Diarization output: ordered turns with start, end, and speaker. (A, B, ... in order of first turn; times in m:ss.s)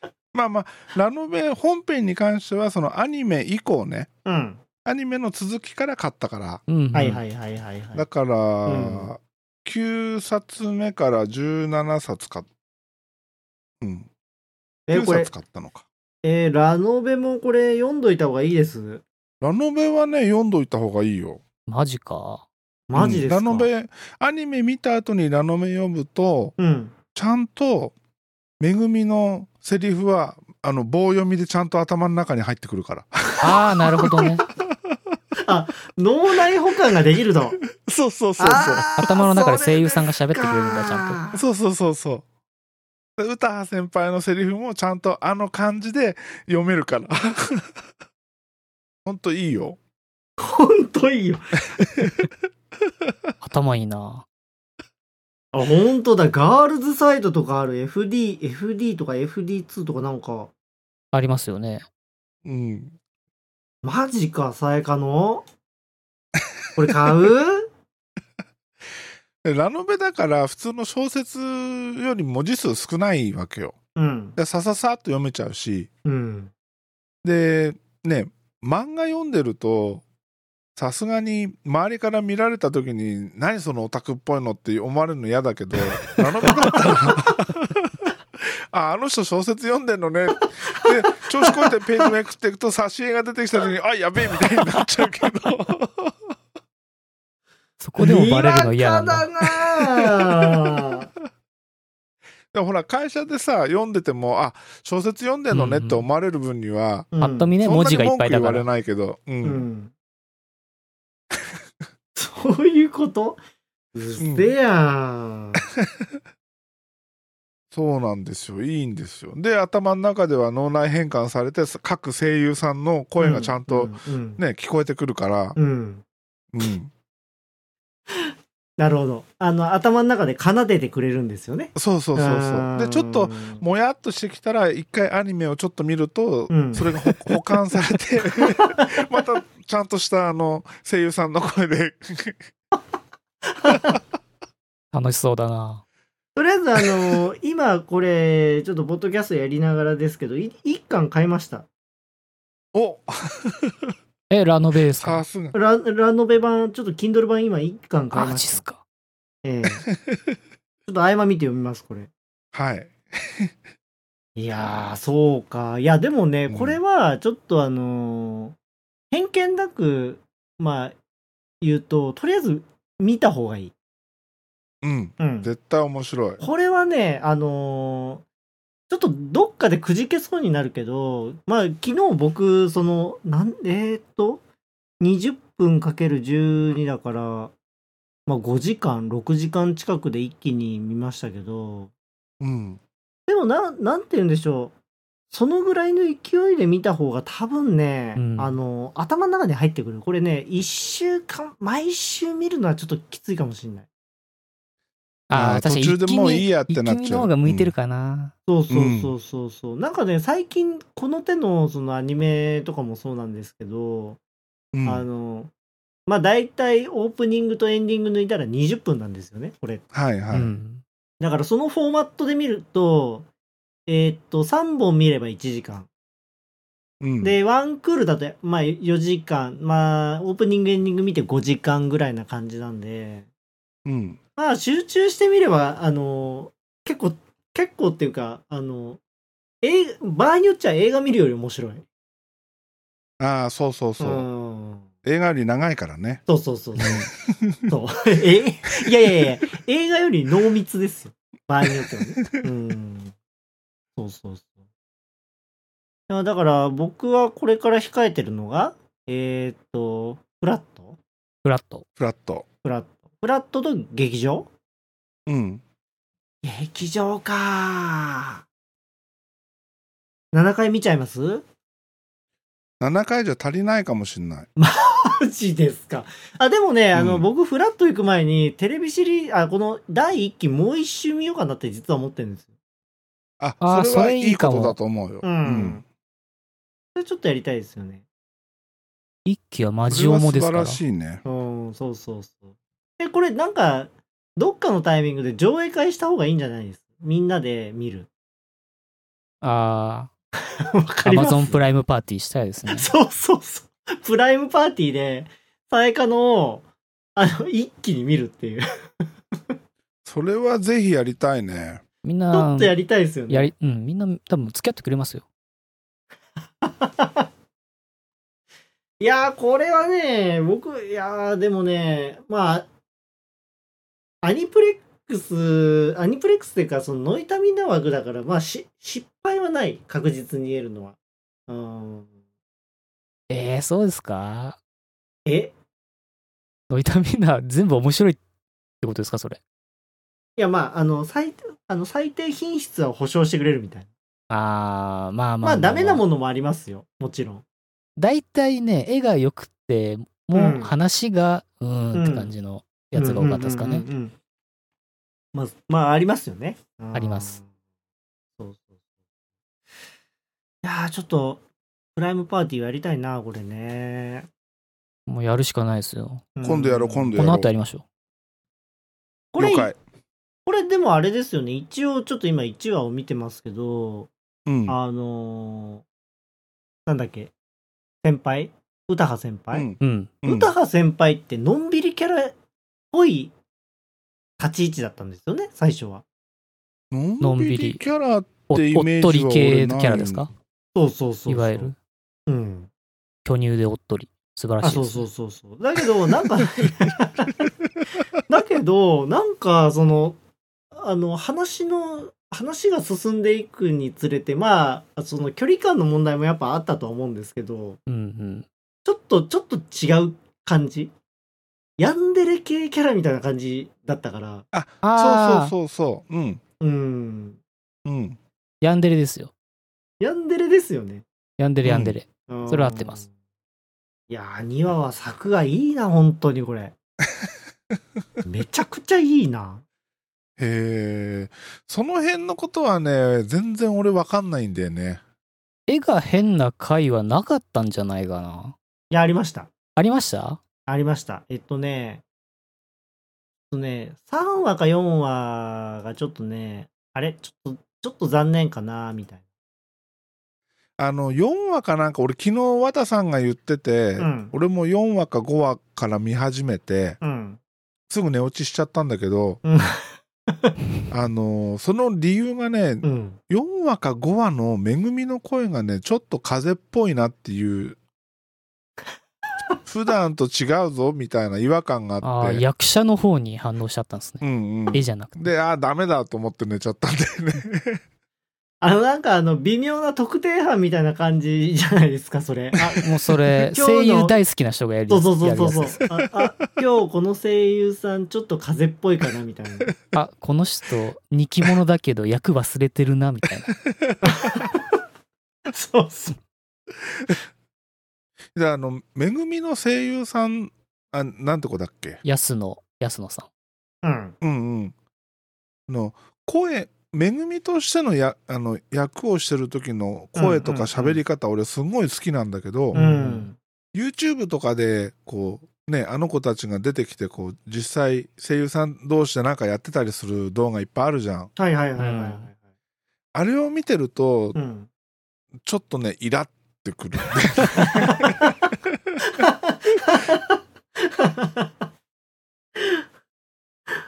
0:00.3-0:04.1 A
0:04.2-0:04.6 B
0:04.8-0:06.6 A
0:06.7-0:07.2 C
0:06.9-0:08.0 B
0:07.9-0:12.5 A
0:08.6-0:09.1 B
0:13.8-0:14.1 A
0:14.9-0:15.3 B
0:14.9-0:15.8 A
0:16.2-0:19.0 B
0:19.4-0:21.4 A
0:21.7-0:22.4 C
0:22.9-0:23.7 B
0:22.9-0:26.6 A
0:26.6-0:26.9 B
0:27.1-0:27.9 A
0:28.6-0:35.2 A
0:33.4-0:34.4 C
0:35.4-0:37.6 B
0:37.6-0:39.1 A
0:38.4-0:41.4 B
0:39.0-0:41.2 C
0:41.3-0:42.2 A
0:43.2-0:47.8 A
0:49.0-0:49.8 A
0:50.4-0:51.6 B
0:51.8-0:52.1 A
0:53.0-0:53.3 A
0:53.4-0:54.2 C
0:55.5-1:00.5 B
1:01.1-1:01.8 C
1:02.4-1:03.0 A
1:03.8-1:05.4 B
1:06.8-1:07.7 B
1:09.4-1:13.7 A
1:14.0-1:14.4 B
1:14.4-1:15.9 A
1:16.0-1:16.5 B
1:17.2-1:20.0 A
1:20.8-1:36.3 A
1:26.1-1:27.2 B
1:31.5-1:32.0 B
1:37.8-1:39.3 C
1:38.0-1:41.1 B
1:39.8-1:40.8 A
1:42.5-1:49.6 A
1:45.5-1:46.0 C
1:47.1-1:47.5 B
1:47.2-1:48.7 C
1:49.4-1:49.9 B
1:52.1-1:53.4 B
1:53.9-1:55.6 B
1:54.2-1:54.5 A
1:55.8-1:56.1 A
1:57.7-2:05.6 A
2:03.2-2:04.4 B
2:05.6-2:06.0 B
2:06.5-2:06.9 A
2:08.1-2:13.6 B
2:11.7-2:22.4 A
2:16.5-2:17.2 B
2:18.4-2:19.2 B
2:23.4-2:24.0 B
2:23.7-2:24.0 A
2:24.9-2:25.8 C
2:26.4-2:31.6 B
2:32.7-2:33.9 A
2:34.3-2:35.2 C
2:35.0-2:35.6 A
2:35.5-2:38.6 B
2:38.1-2:38.8 C
2:39.4-2:39.8 B
2:39.9-2:40.4 A
2:40.8-2:42.1 B
2:42.5-2:43.5 A
2:44.4-2:48.6 B
2:46.5-2:46.8 A
2:49.1-2:51.0 B
2:51.6-2:53.7 B
2:54.8-2:56.4 A
2:55.2-2:55.5 B
2:56.4-2:58.2 B
2:58.9-3:04.4 B
3:05.0-3:07.5 B
3:08.3-3:11.9 B
3:12.4-3:12.8 A
3:13.3-3:14.7 B
3:15.3-3:23.8 B
3:18.2-3:18.6 C
3:25.3-3:28.3 C
3:25.3-3:27.7 A
3:28.5-3:34.2 B
3:28.7-3:29.1 A
3:34.7-3:35.0 A
3:34.8-3:35.5 B
3:36.1-3:39.8 B
3:39.9-3:40.5 A
3:40.3-3:40.8 C
3:41.2-3:43.3 B
3:43.9-3:45.9 B
3:47.0-3:47.4 A
3:47.2-3:53.3 B
3:53.8-3:54.2 A
3:54.4-3:59.0 B
3:59.6-4:01.8 B
4:03.2-4:04.3 A
4:04.0-4:04.9 B
4:05.0-4:06.2 A
4:06.3-4:07.1 B
4:06.8-4:07.7 A
4:07.7-4:13.1 B
4:11.9-4:12.4 A
4:14.0-4:14.5 B
4:16.1-4:21.0 B
4:21.4-4:21.8 C
4:22.0-4:22.4 A
4:22.6-4:24.5 B
4:25.2-4:25.6 A
4:26.4-4:28.4 B
4:30.3-4:31.4 B
4:32.8-4:34.5 A
4:34.6-4:42.5 B
4:36.9-4:37.2 A
4:43.4-4:45.8 A
4:43.6-4:44.8 C
4:45.2-4:45.8 B
4:46.9-4:48.0 B
4:49.2-4:50.8 C
4:49.9-4:51.2 A
4:51.2-4:58.1 B
4:59.4-5:00.1 C
5:00.5-5:01.6 B
5:01.0-5:02.9 C
5:02.7-5:06.6 B
5:07.2-5:08.7 B
5:10.0-5:11.8 A
5:12.0-5:12.7 C
5:12.3-5:13.5 B
5:13.3-5:15.2 C
5:16.6-5:17.3 B
5:19.0-5:22.7 B
5:24.2-5:31.0 B
5:31.5-5:32.1 B
5:33.3-5:34.6 C
5:35.2-5:35.5 B
5:36.7-5:38.2 C
5:38.8-5:39.4 C
5:40.4-5:43.9 B
5:44.3-5:46.0 C
5:45.4-5:47.4 B
5:48.0-5:53.8 C
5:50.3-5:50.7 B
5:51.9-5:52.3 B
5:52.9-5:54.1 B
5:55.3-5:57.5 B
5:56.9-5:57.4 C
5:58.4-5:58.7 B
6:00.6-6:01.4 B
6:02.0-6:04.3 B
6:05.1-6:06.3 C
6:06.4-6:07.2 B
6:06.4-6:07.5 A
6:07.1-6:07.8 C
6:09.3-6:09.7 B
6:09.4-6:09.8 A
6:10.4-6:14.1 B
6:14.4-6:14.8 A
6:14.7-6:15.8 B
6:16.8-6:17.3 B
6:18.0-6:19.7 B
6:19.5-6:20.5 A
6:19.8-6:20.1 C
6:20.2-6:22.4 B
6:22.9-6:23.3 B
6:24.4-6:26.0 B
6:26.9-6:30.3 A
6:27.2-6:27.8 C
6:28.5-6:30.3 C
6:30.7-6:31.7 B
6:31.3-6:31.8 C
6:32.3-6:32.7 B
6:33.2-6:35.0 C
6:34.6-6:37.5 B
6:38.2-6:40.2 B
6:40.7-6:47.8 B
6:47.9-6:48.4 C
6:48.8-6:50.9 B
6:51.8-6:54.4 B
6:54.5-6:56.4 A
6:54.8-6:55.5 C
6:56.6-6:57.4 B
6:57.8-6:58.2 A
6:58.6-6:59.3 C
7:00.0-7:01.0 B
7:01.4-7:03.0 C
7:01.6-7:02.0 A
7:02.3-7:03.1 B
7:04.1-7:06.7 B
7:08.2-7:09.6 B
7:10.4-7:15.0 A
7:15.7-7:18.5 C
7:18.9-7:19.5 B
7:19.8-7:20.4 C
7:20.7-7:22.0 B
7:23.5-7:29.2 B
7:30.8-7:37.0 A
7:34.0-7:34.3 B
7:37.0-7:37.4 B
7:37.9-7:39.4 A
7:39.4-7:40.5 B
7:40.9-7:47.8 A
7:42.8-7:43.2 B
7:49.6-7:52.4 A
7:52.0-7:55.3 C
7:54.2-7:57.8 A
7:58.6-8:02.8 B
8:02.6-8:02.9 A
8:02.8-8:05.8 C
8:03.5-8:04.2 B
8:04.9-8:09.7 B
8:09.9-8:13.6 C
8:13.7-8:14.0 A
8:14.0-8:14.8 B
8:15.4-8:16.2 B
8:18.3-8:22.0 A
8:22.0-8:23.3 C
8:23.8-8:24.1 B
8:24.2-8:24.7 A
8:25.7-8:32.8 A
8:30.1-8:31.0 B
8:32.7-8:33.3 C
8:32.7-8:33.4 B
8:33.7-8:41.3 A
8:41.4-8:42.4 B
8:41.8-8:42.3 C
8:43.1-8:44.4 A
8:44.3-8:44.7 B
8:45.4-8:48.9 A
8:47.7-8:48.4 B
8:49.1-8:51.5 B